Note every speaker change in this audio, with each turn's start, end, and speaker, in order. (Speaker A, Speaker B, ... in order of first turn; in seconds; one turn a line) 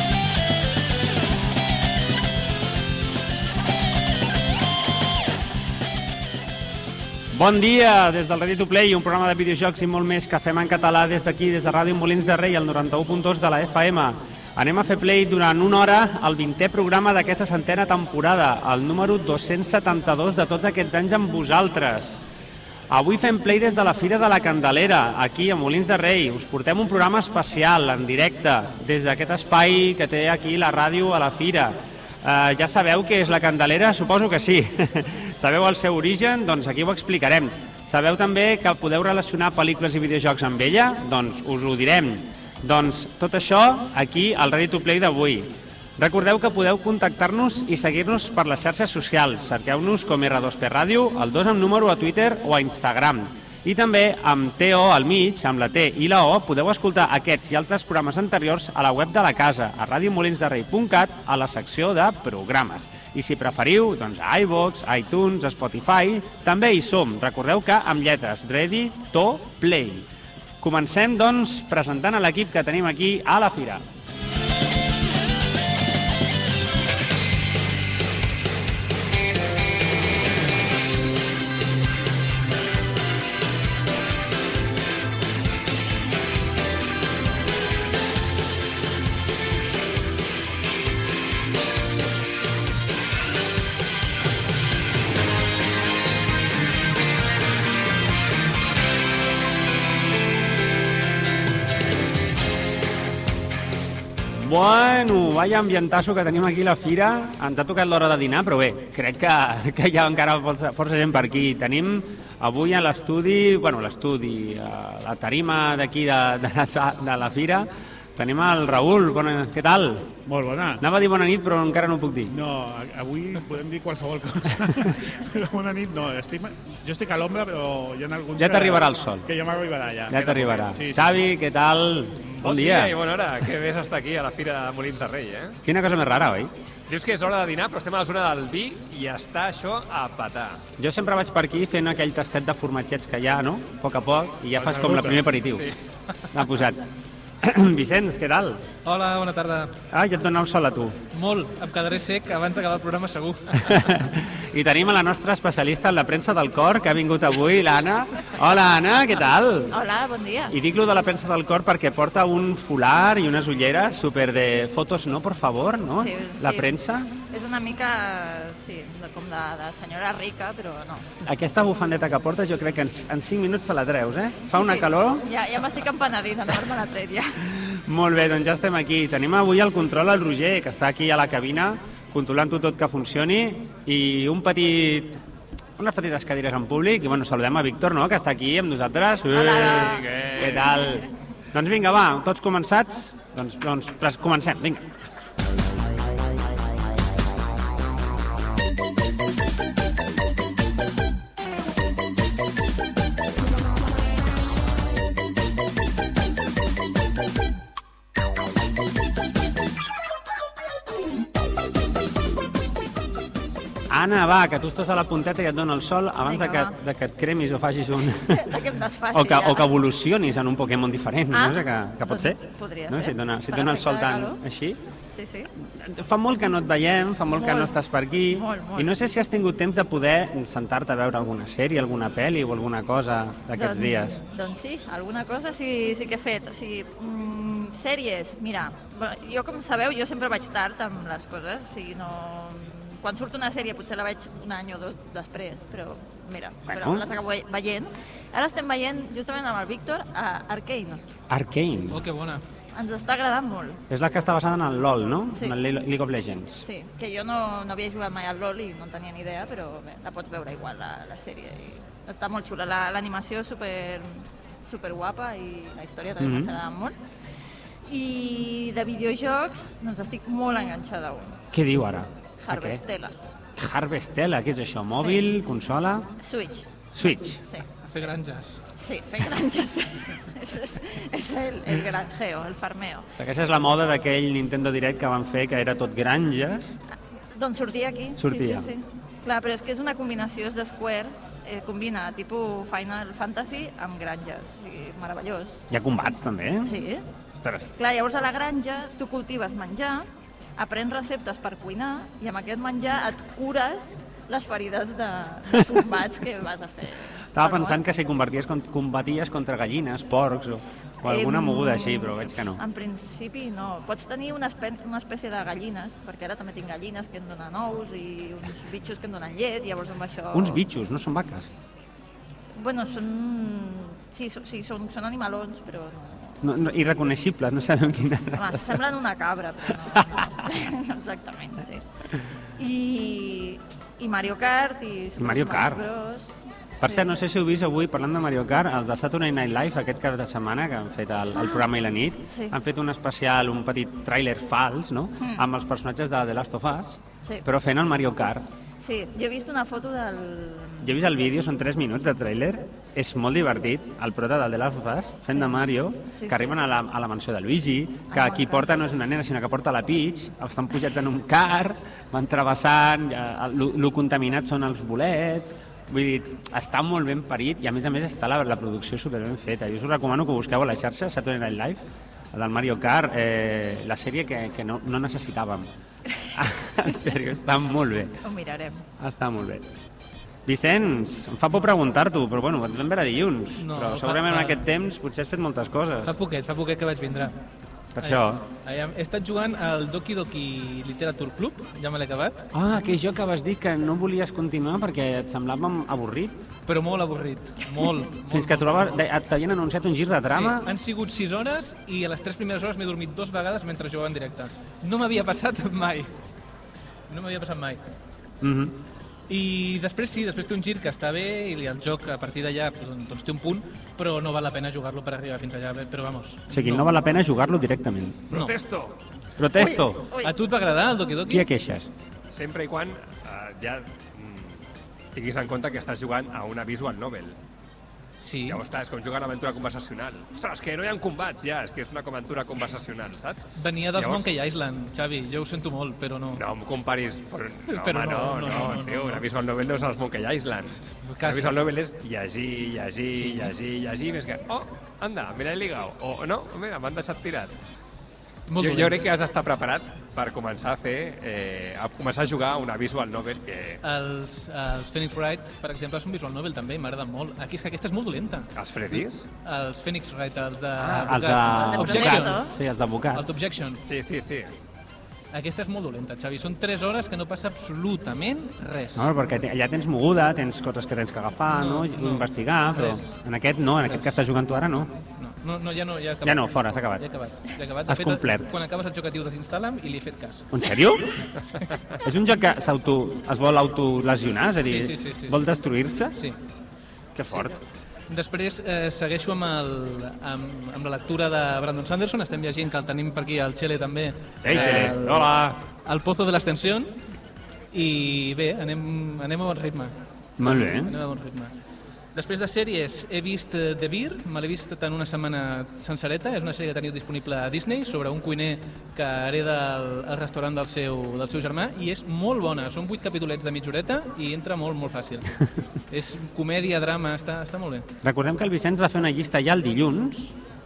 Speaker A: 7.3-22.2
Speaker A: 22.9-70.1
Speaker A: 70.6-73.8
Speaker A: 104.3-120.1
Speaker B: 120.2-120.8
Speaker A: 120.8-122.3
Speaker B: 122.2-131.2
Speaker A: 128.3-129.3
Speaker A: 130.1-133.0
Speaker C: 130.1-130.7
Speaker C: 132.2-135.6
Speaker A: 135.6-136.5
Speaker C: 136.9-140.6
Speaker A: 140.8-145.7
Speaker B: 144.5-145.3
Speaker A: 146.3-146.9
Speaker A: 147.4-148.6
Speaker D: 148.8-149.7
Speaker A: 149.9-151.0
Speaker D: 151.1-153.9
Speaker A: 153.7-159.8
Speaker E: 159.7-160.6
Speaker A: 160.5-167.1
Speaker E: 165.9-171.1
Speaker A: 171.2-175.3
Speaker E: 174.5-177.4
Speaker A: 177.5-185.2
Speaker A: 185.8-194.9
Speaker E: 189.3-190.0
Speaker C: 189.4-190.8
Speaker A: 213.9-218.6
Speaker E: 216.2-216.8
Speaker E: 218.3-219.7
Speaker A: 219.1-224.8
Speaker E: 221.3-224.4
Speaker E: 225.1-225.5
Speaker A: 225.6-234.2
Speaker E: 227.3-227.8
Speaker E: 228.3-228.9
Speaker E: 233.5-251.0
Speaker A: 246.7-247.1
Speaker A: 251.3-252.0
Speaker D: 251.9-252.4
Speaker E: 252.7-253.8
Speaker A: 253.9-256.6
Speaker E: 256.6-266.9
Speaker A: 266.2-266.5
Speaker E: 267.9-271.4
Speaker A: 271.5-272.8
Speaker E: 272.4-273.1
Speaker A: 273.6-276.1
Speaker E: 274.9-275.3
Speaker E: 276.2-277.6
Speaker A: 276.9-277.4
Speaker D: 277.9-278.6
Speaker E: 278.8-283.1
Speaker A: 283.1-286.8
Speaker E: 287.3-295.6
Speaker A: 288.2-288.7
Speaker A: 295.7-296.8
Speaker E: 296.6-297.0
Speaker E: 297.8-307.8
Speaker A: 305.5-305.9
Speaker A: 307.3-312.6
Speaker E: 311.0-320.6
Speaker A: 320.3-321.5
Speaker E: 322.5-326.4
Speaker A: 326.4-328.8
Speaker E: 328.4-331.8
Speaker A: 329.9-330.2
Speaker E: 332.6-337.1
Speaker A: 335.2-335.8
Speaker A: 336.8-348.5
Speaker E: 341.4-341.6
Speaker E: 342.3-342.6
Speaker E: 345.2-345.4
Speaker E: 348.8-350.9
Speaker A: 350.8-375.7
Speaker E: 355.3-356.6
Speaker E: 358.1-358.7
Speaker A: 376.3-378.2
Speaker E: 378.2-378.8
Speaker A: 379.0-379.6
Speaker A: 380.4-386.1
Speaker D: 383.6-384.6
Speaker D: 386.1-387.4
Speaker A: 387.9-388.4
Speaker D: 388.0-392.5
Speaker A: 392.5-396.4
Speaker D: 396.6-399.0
Speaker A: 398.3-400.7
Speaker D: 400.3-406.1
Speaker D: 407.1-407.8
Speaker A: 408.4-408.8
Speaker D: 409.3-417.0
Speaker A: 416.5-418.4
Speaker C: 418.3-419.0
Speaker A: 419.4-420.0
Speaker E: 419.6-420.3
Speaker D: 420.2-421.5
Speaker A: 421.3-421.9
Speaker C: 422.3-424.6
Speaker C: 425.1-427.4
Speaker D: 428.2-428.6
Speaker C: 428.5-434.3
Speaker D: 433.6-436.4
Speaker C: 436.3-447.5
Speaker D: 437.7-439.2
Speaker D: 441.1-441.6
Speaker D: 443.1-443.5
Speaker D: 448.5-449.0
Speaker C: 448.6-453.8
Speaker D: 453.8-462.5
Speaker C: 458.6-459.2
Speaker A: 460.8-463.2
Speaker E: 461.6-462.5
Speaker D: 463.1-463.8
Speaker C: 463.9-464.5
Speaker D: 465.3-469.1
Speaker A: 468.9-474.9
Speaker D: 471.5-473.1
Speaker D: 475.2-476.4
Speaker A: 476.2-477.0
Speaker D: 477.0-480.5
Speaker A: 477.9-478.5
Speaker A: 480.5-481.2
Speaker A: 482.0-486.2
Speaker D: 484.6-485.4
Speaker A: 487.1-487.6
Speaker D: 488.1-496.9
Speaker A: 494.4-495.6
Speaker D: 497.7-501.5
Speaker A: 500.4-501.0
Speaker D: 502.1-517.9
Speaker A: 518.0-520.4